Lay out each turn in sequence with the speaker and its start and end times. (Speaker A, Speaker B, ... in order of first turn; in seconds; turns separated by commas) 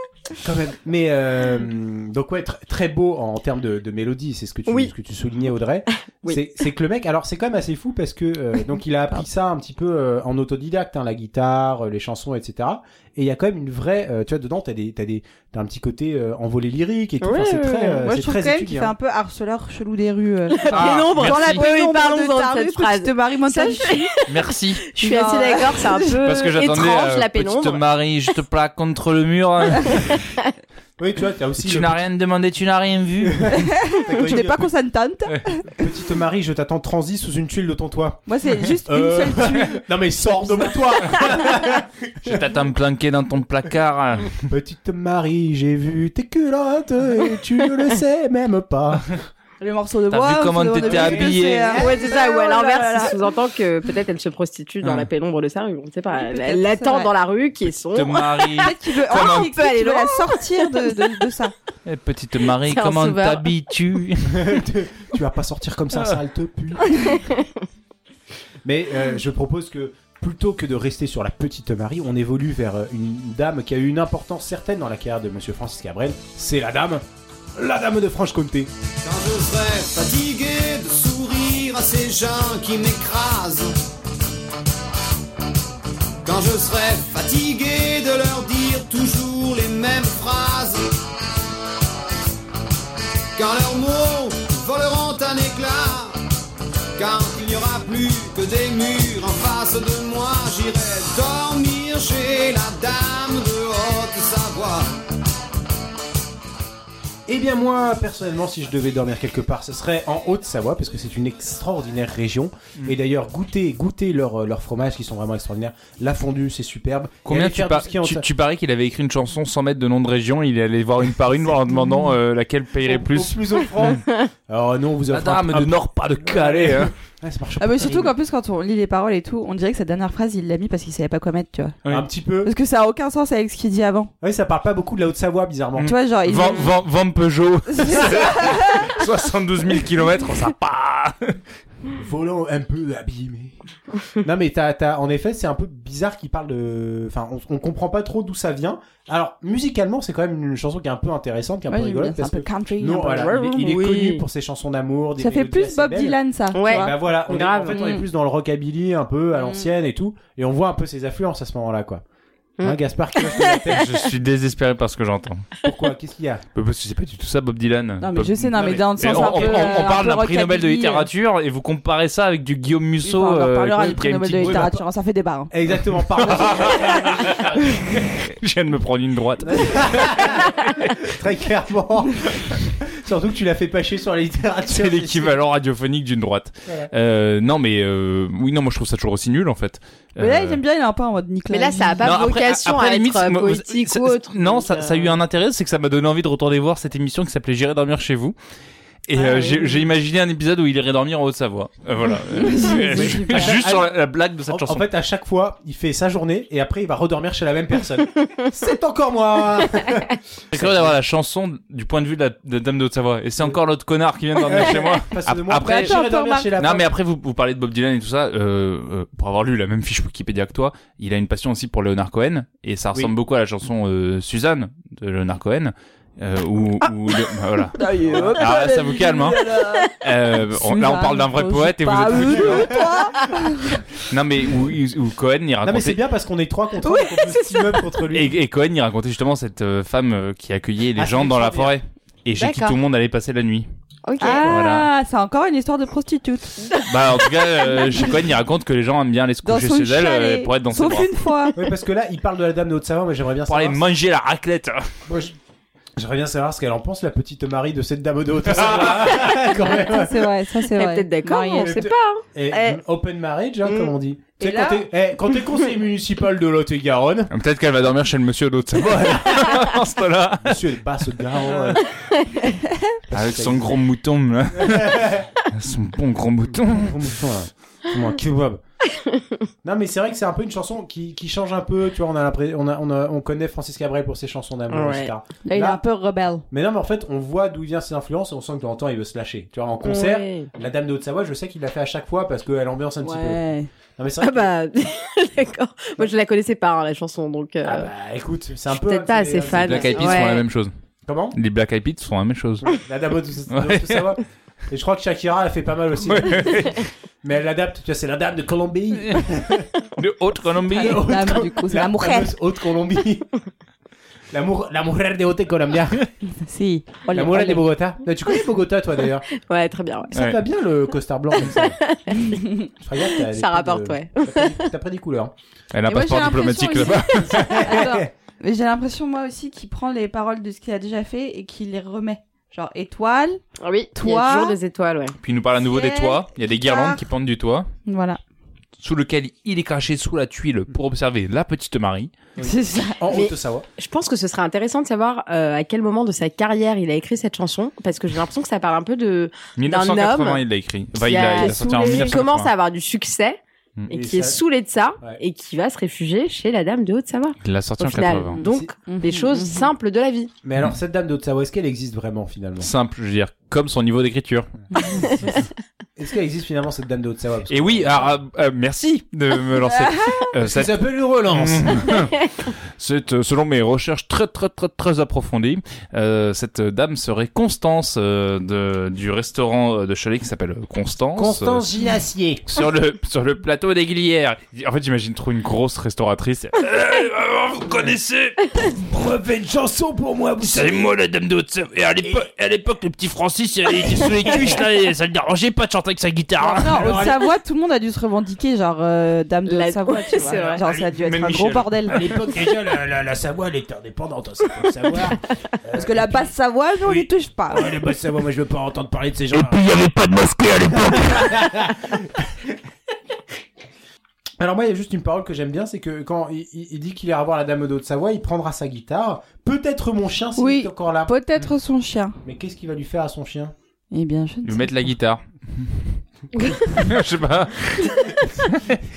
Speaker A: 0.4-18.9, Speaker B: 17.2-18.0, Speaker C: 18.0-24.1, Speaker B: 20.5-27.8, Speaker D: 20.7-21.6, Speaker D: 24.3-24.9, Speaker C: 24.9-26.2, Speaker D: 26.2-30.2, Speaker B: 29.9-30.4, Speaker A: 31.0-32.0, Speaker D: 31.6-33.6, Speaker A: 33.2-34.7, Speaker C: 33.5-35.7, Speaker A: 35.8-42.6, Speaker C: 38.3-40.6, Speaker D: 42.2-44.4, Speaker A: 44.4-49.1, Speaker C: 49.6-53.3, Speaker D: 50.1-51.8, Speaker A: 50.8-52.0, Speaker B: 51.7-61.1, Speaker D: 54.8-55.1, Speaker C: 56.1-57.1, Speaker D: 57.9-59.5, Speaker C: 58.6-61.5, Speaker D: 61.9-64.6, Speaker B: 62.6-63.5, Speaker A: 64.2-67.2, Speaker B: 67.1-67.5, Speaker A: 68.6-77.0, Speaker A: 77.6-78.7, Speaker E: 79.0-83.7, Speaker E: 86.2-91.0, Speaker E: 93.4-96.2, Speaker E: 97.0-105.0, Speaker A: 107.3-118.2, Speaker D: 117.2-124.0, Speaker A: 122.8-128.1, Speaker D: 125.1-126.9, Speaker C: 127.6-131.8, Speaker A: 131.9-132.5, Speaker C: 132.4-134.1, Speaker A: 134.2-135.9, Speaker D: 135.8-141.4, Speaker C: 135.8-136.7, Speaker C: 137.7-138.9, Speaker A: 141.9-143.6, Speaker A: 144.2-162.0, Speaker C: 151.7-153.4, Speaker B: 153.2-154.2, Speaker C: 155.2-157.0, Speaker B: 156.5-157.9, Speaker C: 157.8-158.0, Speaker B: 162.6-163.7, Speaker A: 162.6-164.0, Speaker D: 163.7-165.5, Speaker A: 165.6-166.4, Speaker D: 166.6-174.8, Speaker C: 168.0-171.1, Speaker A: 168.6-169.9, Speaker C: 173.0-175.5, Speaker A: 174.4-174.7, Speaker A: 175.5-178.0, Speaker D: 176.1-177.4, Speaker D: 178.1-180.7, Speaker A: 179.4-185.4, Speaker D: 184.7-190.6, Speaker C: 190.2-192.2, Speaker B: 191.5-195.2, Speaker D: 192.0-198.3, Speaker D: 199.1-204.9, Speaker C: 199.2-199.9, Speaker C: 202.4-203.6, Speaker A: 202.9-203.9, Speaker A: 204.5-211.0, Speaker D: 210.5-215.9, Speaker A: 214.4-216.9, Speaker C: 215.6-216.5, Speaker D: 216.6-229.4, Speaker C: 227.8-233.8, Speaker A: 228.1-228.5, Speaker D: 230.0-232.8, Speaker A: 232.1-232.9, Speaker D: 234.0-236.0, Speaker A: 235.6-238.4, Speaker B: 236.8-237.8, Speaker D: 238.1-243.7, Speaker A: 240.9-241.8, Speaker B: 242.4-242.8, Speaker B: 244.1-244.5, Speaker C: 244.2-246.7, Speaker D: 244.4-244.9, Speaker D: 246.9-251.1, Speaker C: 249.4-251.6, Speaker A: 251.6-253.8, Speaker D: 253.5-254.9, Speaker A: 255.1-255.4, Speaker A: 255.9-260.3, Speaker D: 258.7-259.1, Speaker C: 259.6-261.9, Speaker B: 260.7-262.2, Speaker A: 261.4-267.3, Speaker C: 262.5-262.8, Speaker B: 263.7-263.9, Speaker C: 264.4-264.9, Speaker D: 267.3-270.6, Speaker A: 269.0-269.5, Speaker A: 270.4-271.9, Speaker A: 273.1-273.8, Speaker D: 273.1-277.1, Speaker A: 274.5-275.3, Speaker A: 276.5-278.6, Speaker A: 279.6-285.8, Speaker B: 284.7-285.1, Speaker C: 285.4-286.4, Speaker A: 286.5-293.4, Speaker B: 289.8-290.5, Speaker C: 293.0-293.7, Speaker A: 294.0-294.5, Speaker B: 294.2-297.9, Speaker A: 297.6-300.3, Speaker B: 298.7-300.4, Speaker D: 299.4-300.7, Speaker A: 301.1-301.4, Speaker D: 301.4-302.8, Speaker A: 302.6-309.7, Speaker D: 303.5-304.1, Speaker D: 306.1-306.9, Speaker D: 310.0-311.1, Speaker C: 310.7-312.3, Speaker A: 310.7-313.3, Speaker A: 314.3-316.1, Speaker C: 316.4-317.7, Speaker A: 317.1-319.3, Speaker B: 319.3-320.1, Speaker A: 320.1-321.8, Speaker D: 320.1-320.4, Speaker B: 321.4-324.6, Speaker A: 322.8-325.3, Speaker D: 325.7-327.6, Speaker C: 325.9-333.4, Speaker A: 327.3-328.1, Speaker B: 333.6-335.1, Speaker C: 333.9-334.6, Speaker D: 335.2-337.7, Speaker C: 335.7-337.0, Speaker C: 337.9-338.2, Speaker D: 338.8-342.1, Speaker A: 342.4-343.7, Speaker C: 342.4-343.0, Speaker B: 343.1-350.4, Speaker D: 349.6-352.5, Speaker B: 350.9-360.3, Speaker C: 351.4-352.1, Speaker A: 353.9-354.4, Speaker D: 357.4-358.4, Speaker C: 358.4-359.7, Speaker A: 358.4-358.7, Speaker A: 360.4-362.7, Speaker D: 362.6-365.4, Speaker A: 365.0-365.3, Speaker A: 366.0-368.1, Speaker D: 367.5-381.7, Speaker C: 369.7-370.3, Speaker A: 370.4-372.0, Speaker A: 381.1-382.5, Speaker D: 382.5-388.8, Speaker A: 388.8-390.9, Speaker D: 390.4-397.0, Speaker A: 393.9-394.6, Speaker C: 396.4-402.1, Speaker A: 396.5-397.2, Speaker B: 399.4-400.6, Speaker D: 400.6-402.1, Speaker A: 401.9-406.3, Speaker C: 405.7-407.7, Speaker A: 406.8-409.6, Speaker D: 409.3-411.3, Speaker A: 410.7-412.6, Speaker A: 414.4-421.5, Speaker C: 420.4-422.2, Speaker A: 422.2-423.5, Speaker C: 423.9-424.9, Speaker D: 424.4-425.8, Speaker D: 426.4-428.8, Speaker A: 428.1-428.5